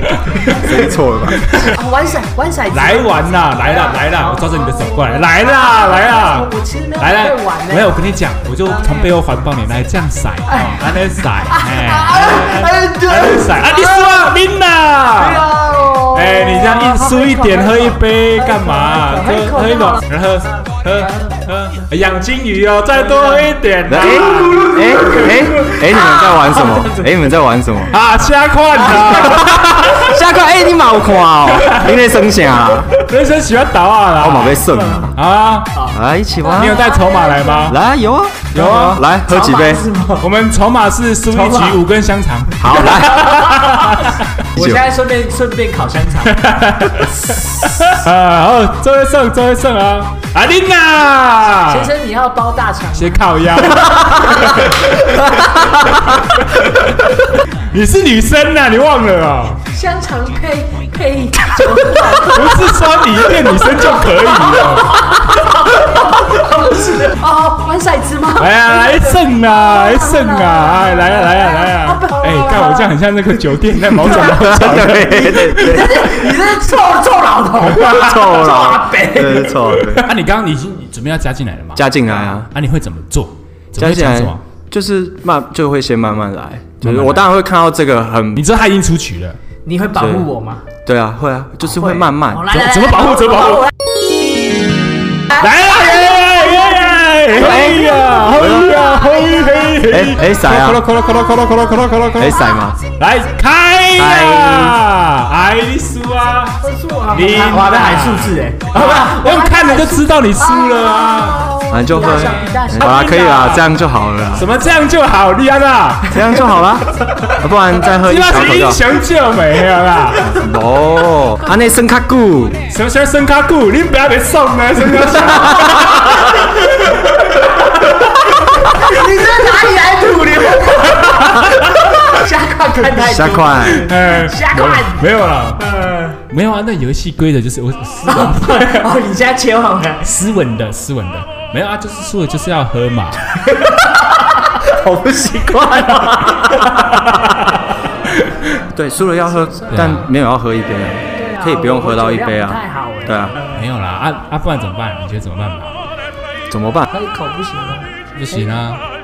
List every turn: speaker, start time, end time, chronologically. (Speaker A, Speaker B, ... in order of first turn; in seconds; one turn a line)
Speaker A: 0.5-1.5
Speaker B: 1.4-8.0
Speaker C: 2.7-15.5
Speaker B: 8.7-9.1
Speaker B: 10.5-10.8
Speaker B: 11.6-14.1
Speaker B: 15.2-20.0
Speaker C: 16.1-25.1
Speaker A: 23.9-28.0
Speaker B: 24.9-27.1
Speaker C: 27.9-30.2
Speaker A: 29.4-33.0
Speaker C: 33.0-35.8
Speaker A: 34.2-35.2
Speaker B: 34.7-35.1
Speaker B: 35.7-37.7
Speaker A: 35.9-36.8
Speaker C: 36.5-37.8
Speaker A: 37.7-39.9
Speaker C: 38.5-39.0
Speaker B: 38.6-40.3
Speaker C: 40.2-44.3
Speaker B: 41.3-41.8
Speaker A: 42.6-43.4
Speaker B: 42.8-47.7
Speaker A: 44.5-44.8
Speaker C: 46.2-51.9
Speaker B: 51.6-54.7
Speaker C: 53.0-59.6
Speaker B: 59.7-62.8
Speaker C: 61.8-65.1
Speaker B: 63.4-72.9
Speaker C: 68.4-75.9
Speaker A: 74.2-76.1
Speaker B: 75.1-79.8
Speaker A: 77.8-80.1
Speaker C: 77.8-78.2
Speaker C: 79.9-81.9
Speaker A: 81.8-82.5
Speaker C: 82.5-84.4
Speaker A: 83.8-88.4
Speaker C: 86.8-87.3
Speaker C: 88.3-89.4
Speaker B: 89.7-90.7
Speaker A: 90.0-92.6
Speaker B: 91.7-92.9
Speaker C: 92.4-93.7
Speaker C: 95.3-113.7
Speaker A: 97.3-98.8
Speaker A: 99.9-100.9
Speaker A: 102.2-102.8
Speaker A: 104.0-104.8
Speaker B: 106.6-113.2
Speaker A: 111.7-114.5
Speaker C: 114.3-116.2
Speaker A: 116.1-118.8
Speaker C: 117.9-120.3
Speaker A: 120.2-122.6
Speaker C: 122.7-128.0
Speaker B: 128.4-135.0
Speaker A: 133.0-133.9
Speaker C: 133.6-135.7
Speaker B: 135.6-136.2
Speaker C: 136.3-138.9
Speaker B: 138.1-140.1
Speaker C: 140.0-143.3
Speaker B: 143.4-147.0
Speaker C: 148.2-148.6
Speaker A: 148.7-153.4
Speaker C: 149.7-150.1
Speaker B: 151.2-153.5
Speaker C: 153.5-155.9
Speaker A: 156.5-156.9
Speaker B: 156.9-158.4
Speaker C: 158.2-158.8